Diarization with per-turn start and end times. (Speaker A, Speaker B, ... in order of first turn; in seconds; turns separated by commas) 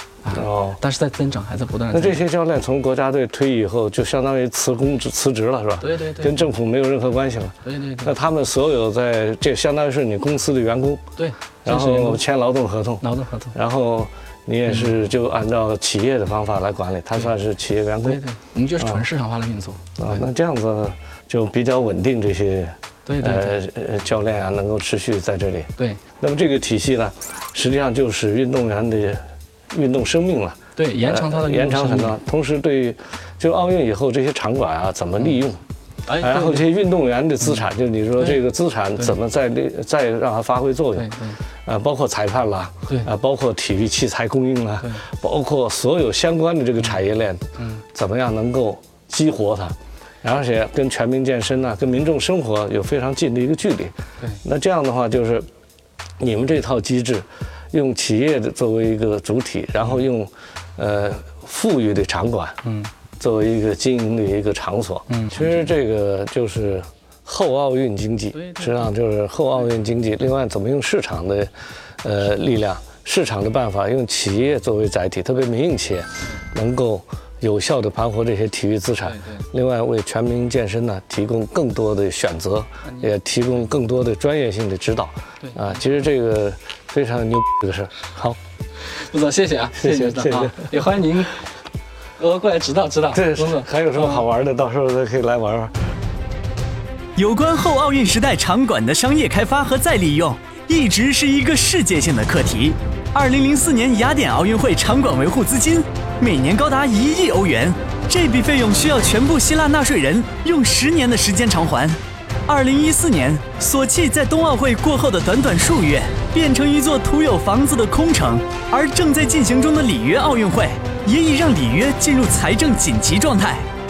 Speaker A: 0.2-2.2, Speaker B: 0.3-0.8, Speaker B: 1.9-11.0, Speaker A: 5.8-6.5, Speaker A: 7.6-8.1, Speaker A: 11.2-12.2, Speaker B: 11.6-18.2, Speaker A: 13.0-13.5, Speaker A: 18.0-20.2, Speaker B: 18.8-19.0, Speaker B: 20.0-35.6, Speaker A: 23.1-23.6, Speaker A: 30.8-32.1, Speaker A: 36.1-36.7, Speaker B: 36.2-41.1, Speaker A: 41.0-41.4, Speaker B: 41.6-55.5, Speaker A: 47.6-47.8, Speaker B: 56.2-62.6, Speaker A: 62.6-62.9, Speaker B: 63.2-71.5, Speaker A: 65.1-65.7, Speaker A: 68.3-68.9, Speaker B: 72.0-88.4, Speaker A: 79.1-79.4, Speaker A: 88.9-91.5, Speaker B: 89.7-90.8, Speaker A: 92.2-94.2, Speaker B: 93.1-95.7, Speaker C: 97.2-123.7